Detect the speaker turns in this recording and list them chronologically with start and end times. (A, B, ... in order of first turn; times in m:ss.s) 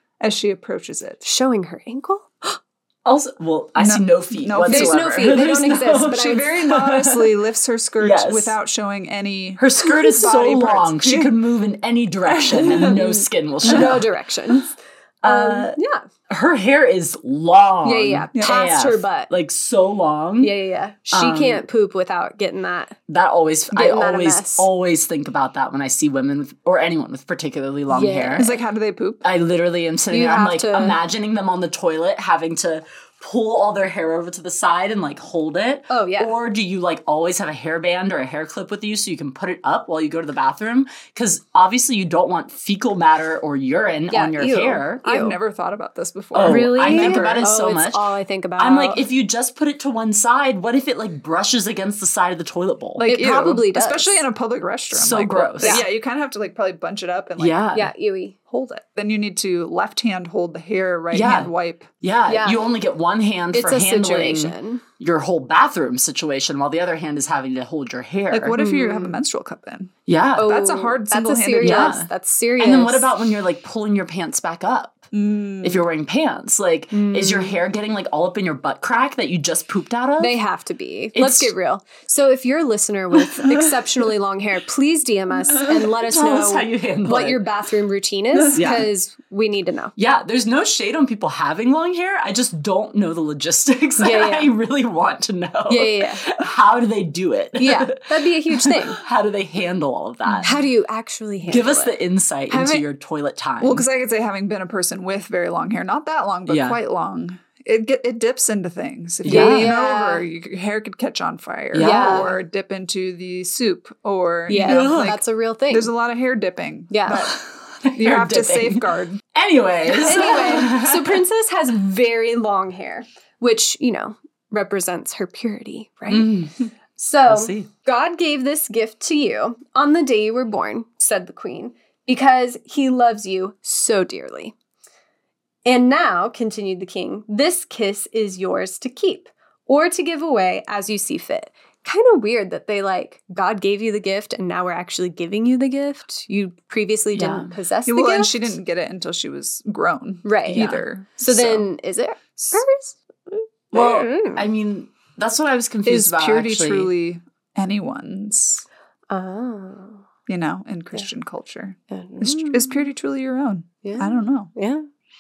0:00.2-0:01.2 A
0:01.2-0:02.6 B
0:03.0-0:07.3 C
0:03.8-0:05.1 A
0:04.6-0:06.5 B
0:06.0-0:11.3 A
0:08.0-0:08.5 C
0:09.6-0:14.0 C
0:12.3-0:13.0 A
0:12.7-0:14.7 B
0:13.7-0:13.9 A
0:15.2-0:20.6 C
0:15.2-0:16.1 B
0:17.8-0:19.3 B
0:20.4-0:23.0 B
0:21.1-0:21.6 C
0:23.1-0:28.5 C
0:23.7-0:24.7 B
0:27.9-0:28.6 B
0:28.4-0:29.2 A
0:29.2-0:45.1 C
0:30.1-0:31.0 B
0:35.9-0:36.3 B
0:44.1-0:45.4 B
0:45.0-0:47.4 A
0:46.3-0:53.0 C
0:46.4-0:49.0 B
0:53.0-0:57.6 A
0:53.0-0:54.2 B
0:54.9-0:55.8 C
0:55.6-0:55.8 B
0:57.4-0:57.9 C
0:57.7-0:58.4 B
0:58.5-1:01.9 A
1:01.1-1:08.6 C
1:02.3-1:02.6 B
1:03.5-1:04.8 B
1:08.3-1:12.0 A
1:08.5-1:09.2 B
1:10.1-1:10.5 C
1:10.4-1:13.1 B
1:11.6-1:15.1 C
1:15.1-1:15.8 A
1:15.6-1:20.4 C
1:16.9-1:17.6 B
1:20.2-1:29.9 B
1:21.1-1:21.5 C
1:25.6-1:27.4 C
1:28.5-1:28.9 C
1:30.0-1:40.6 C
1:34.0-1:34.5 B
1:35.7-1:36.3 B
1:37.6-1:39.0 B
1:40.4-1:42.0 B
1:41.4-1:43.8 C
1:42.5-1:42.8 B
1:43.6-1:57.4 A
1:46.5-1:46.8 C
1:49.2-1:49.7 C
1:49.2-1:50.2 B
1:51.7-1:52.3 C
1:51.8-1:52.3 B
1:54.5-1:55.9 B
1:54.5-1:55.2 C
1:56.9-1:57.3 B
1:57.8-2:01.2 C
1:57.9-1:59.2 A
1:59.9-2:06.3 B
2:00.0-2:00.6 A
2:06.1-2:06.6 C
2:07.0-2:14.5 B
2:07.2-2:07.7 C
2:15.6-2:28.5 B
2:27.1-2:27.5 C
2:27.8-2:31.7 A
2:30.2-2:34.4 B
2:30.5-2:30.8 C
2:32.4-2:32.6 A
2:33.7-2:36.9 C
2:35.8-2:38.6 A
2:39.1-2:40.0 B
2:40.3-2:44.5 A
2:41.9-2:42.9 B
2:43.8-2:44.9 B